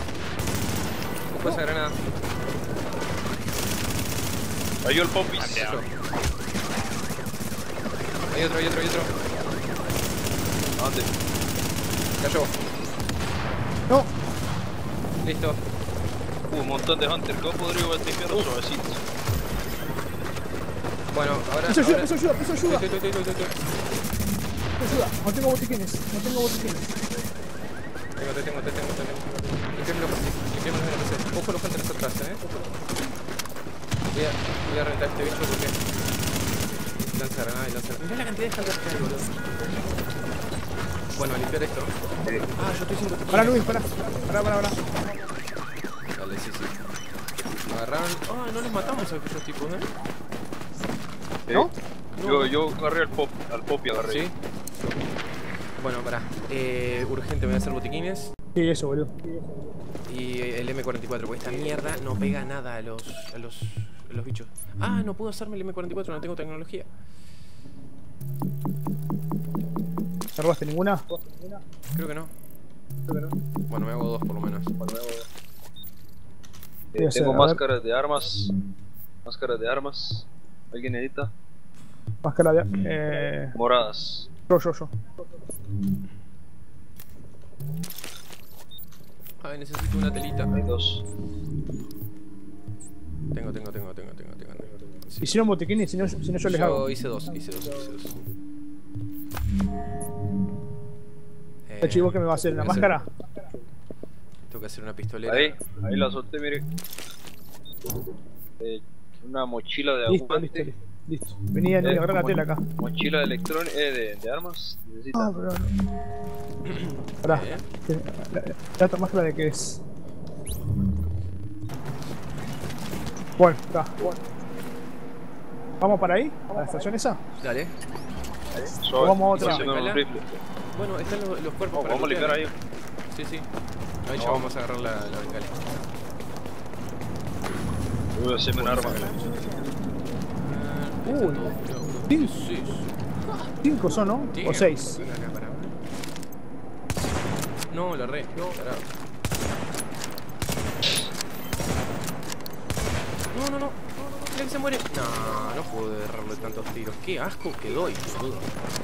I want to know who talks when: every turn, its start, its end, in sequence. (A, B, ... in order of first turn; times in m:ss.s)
0:01.3-0:02.0 A
0:04.8-0:05.7 B
0:05.6-0:05.9 A
0:08.3-0:09.1 A
0:10.8-0:11.1 B
0:12.2-0:12.5 A
0:15.2-0:15.6 A
0:16.5-0:19.0 B
0:21.1-0:23.5 A
0:21.7-0:22.8 C
0:24.8-0:26.9 C
0:28.2-0:32.4 A
0:34.1-0:35.8 A
0:37.0-0:39.3 A
0:41.1-0:41.9 A
0:42.5-0:43.8 A
0:43.3-0:44.8 C
0:46.2-0:46.7 A
0:47.7-0:49.9 A
0:52.1-0:52.6 A
0:52.2-0:54.2 B
0:54.0-0:54.9 A
0:55.8-0:58.3 A
0:58.5-0:59.1 C
1:00.1-1:06.9 A
1:10.4-1:11.0 C
1:11.9-1:12.3 A
1:13.7-1:14.7 A
1:14.8-1:15.2 B
1:16.9-1:18.5 B
1:17.0-1:17.6 C
1:19.2-1:21.3 B
1:22.2-1:23.6 C
1:23.5-1:24.3 B
1:24.5-1:24.9 C
1:29.4-1:30.5 A
1:30.5-1:31.0 B
1:33.3-1:35.4 A
1:35.2-1:36.9 C
1:36.4-1:38.2 A
1:41.7-1:43.0 A
1:41.8-1:43.0 C
1:44.5-1:45.6 A
1:45.2-1:46.6 B
1:48.6-1:50.7 B
1:50.1-1:52.6 C
1:51.8-1:55.3 B
1:55.1-1:55.7 C
1:56.6-1:57.6 A
1:57.2-1:59.8 C
2:03.4-2:04.0 C
2:05.8-2:07.2 C
2:07.4-2:07.7 A
2:08.5-2:10.4 B
2:09.0-2:09.6 C
2:09.3-2:10.0 A
2:10.7-2:12.5 A
2:11.7-2:12.5 B
2:13.1-2:13.5 A
2:14.0-2:15.8 A
2:14.2-2:14.5 B
2:18.1-2:19.0 B
2:18.6-2:19.4 A
2:18.7-2:19.6 C
2:20.4-2:23.5 A
2:21.1-2:21.5 C
2:23.6-2:25.0 C
2:24.3-2:25.8 A
2:27.7-2:28.8 A
2:33.3-2:38.5 A